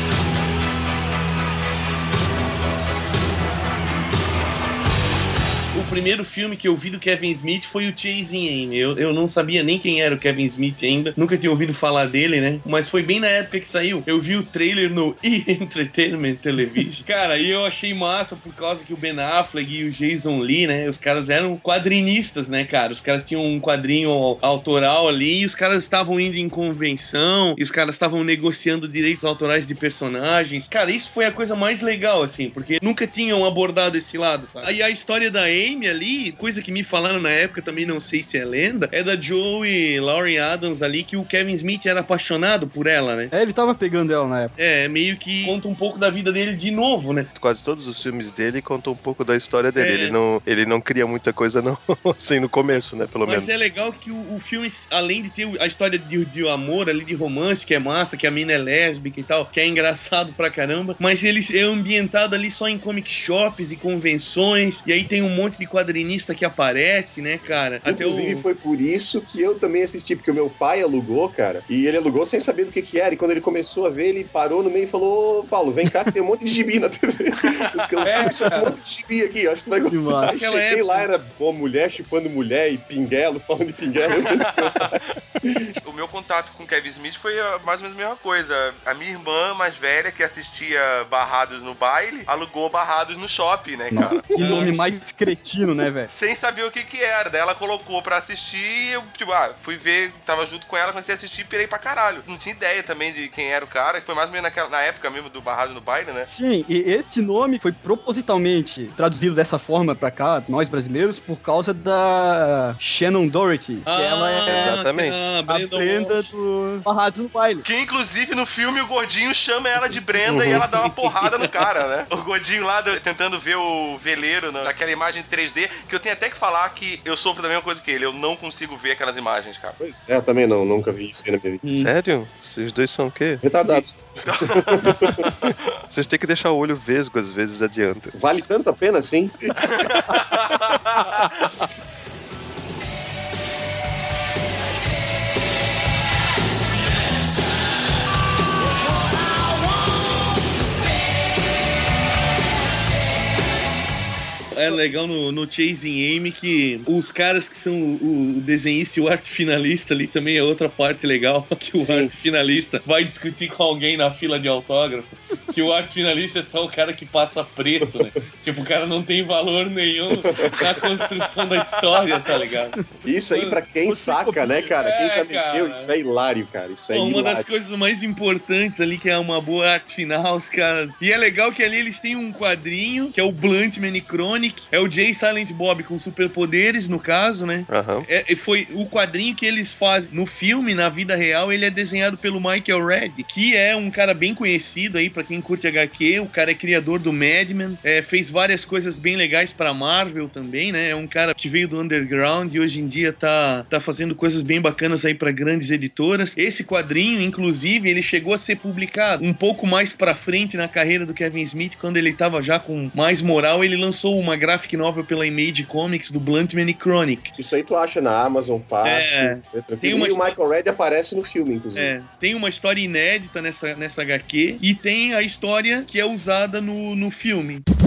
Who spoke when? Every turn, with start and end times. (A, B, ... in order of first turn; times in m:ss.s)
0:05.7-0:43.3 A
0:43.3-0:44.5 B
0:44.6-0:47.3 A
0:47.3-0:53.5 C
0:49.8-0:50.2 A
0:53.2-1:08.4 A
1:07.8-1:25.8 D
1:18.0-1:18.7 A
1:19.9-1:20.3 B
1:20.3-1:21.1 A
1:25.8-1:34.2 E
1:33.9-1:36.1 B
1:34.3-1:34.8 A
1:36.1-1:46.3 E
1:46.3-1:54.7 B
1:53.8-1:56.4 A
1:54.5-1:55.3 C
1:55.5-1:57.6 B
1:57.6-2:09.8 E
2:00.3-2:00.7 C
2:09.8-2:11.6 D
2:11.6-2:11.9 A
2:11.7-2:13.8 C
2:13.4-2:15.2 D
2:14.2-2:15.3 E
2:14.8-2:18.1 C
2:18.1-2:19.8 D
2:34.5-2:52.8 A
2:41.8-2:42.1 D
2:47.8-2:48.2 D
2:50.1-2:50.8 D
2:53.0-2:57.4 D
2:53.3-2:53.6 A
2:53.8-2:54.7 B
2:54.8-2:55.9 A
2:56.9-3:37.4 A
3:07.7-3:08.1 C
3:37.4-3:41.9 D
3:38.8-3:40.4 A
3:41.7-3:47.6 A